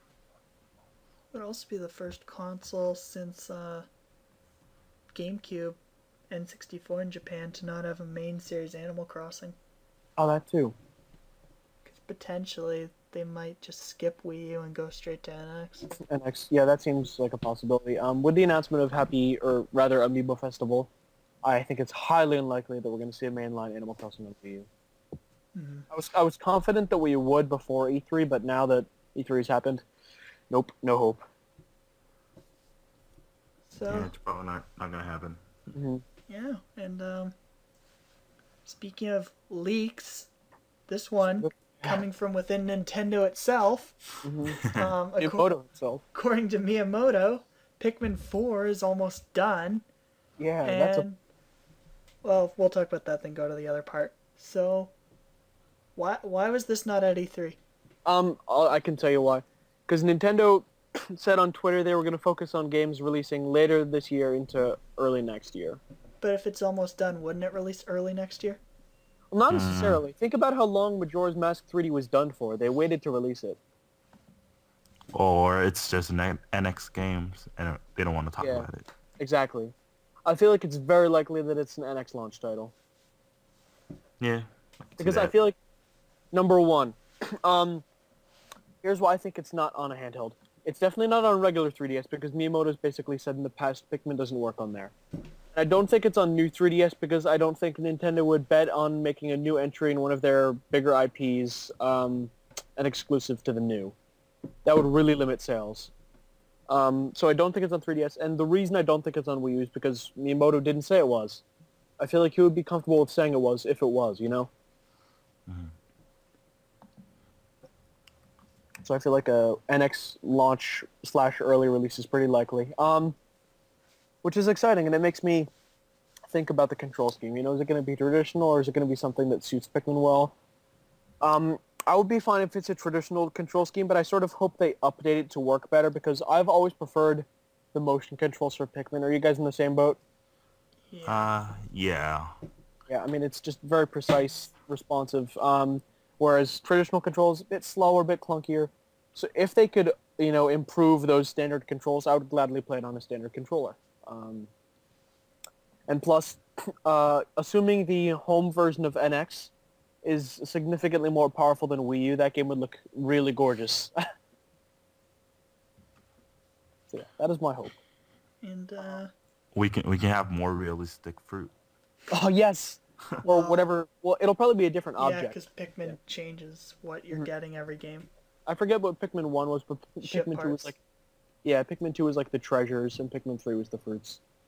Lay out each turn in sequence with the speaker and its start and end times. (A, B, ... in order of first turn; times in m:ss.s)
0:01.3-0:03.9 A
0:05.1-0:05.8 A
0:06.3-0:09.6 A
0:10.2-0:10.7 B
0:11.8-0:15.9 A
0:16.0-0:20.9 B
0:21.4-0:24.7 B
0:25.5-0:25.9 A
0:25.9-0:29.8 B
0:30.5-0:31.2 B
0:33.7-0:34.1 A
0:33.9-0:35.4 C
0:35.7-0:36.0 B
0:36.3-0:37.3 A
0:38.6-0:40.3 A
0:40.9-0:44.0 A
0:41.4-0:42.0 B
0:44.2-0:44.6 B
0:44.6-0:44.9 C
0:44.6-0:45.5 A
0:45.2-0:46.0 B
0:46.1-0:49.8 A
0:50.4-0:51.1 B
0:50.6-0:51.2 A
0:52.2-0:54.9 A
0:56.0-0:57.6 A
0:58.0-1:05.8 B
1:06.2-1:08.6 A
1:09.3-1:13.6 B
1:09.5-1:10.0 C
1:15.1-1:18.8 C
1:18.4-1:19.7 B
1:20.2-1:22.7 B
1:24.2-1:25.3 C
1:25.0-1:25.6 B
1:26.3-1:27.8 B
1:28.8-1:34.9 B
1:35.5-1:43.9 B
1:44.6-1:45.9 B
1:46.7-1:51.4 B
1:52.0-1:54.5 B
1:55.5-1:55.7 C
1:58.8-2:03.2 B
2:04.2-2:05.5 B
2:06.3-2:10.3 B
2:11.2-2:20.0 B
2:20.9-2:21.3 A
2:21.0-2:22.4 C
2:22.9-2:34.5 B
2:35.9-2:39.5 B
2:40.0-2:44.0 B
2:46.9-2:47.8 B
2:48.4-2:49.1 A
2:49.5-2:51.5 C
2:52.1-2:56.0 B
2:53.2-2:53.6 A
2:55.0-2:58.1 A
2:58.5-3:00.8 B
3:00.0-3:00.8 A
3:01.4-3:04.2 B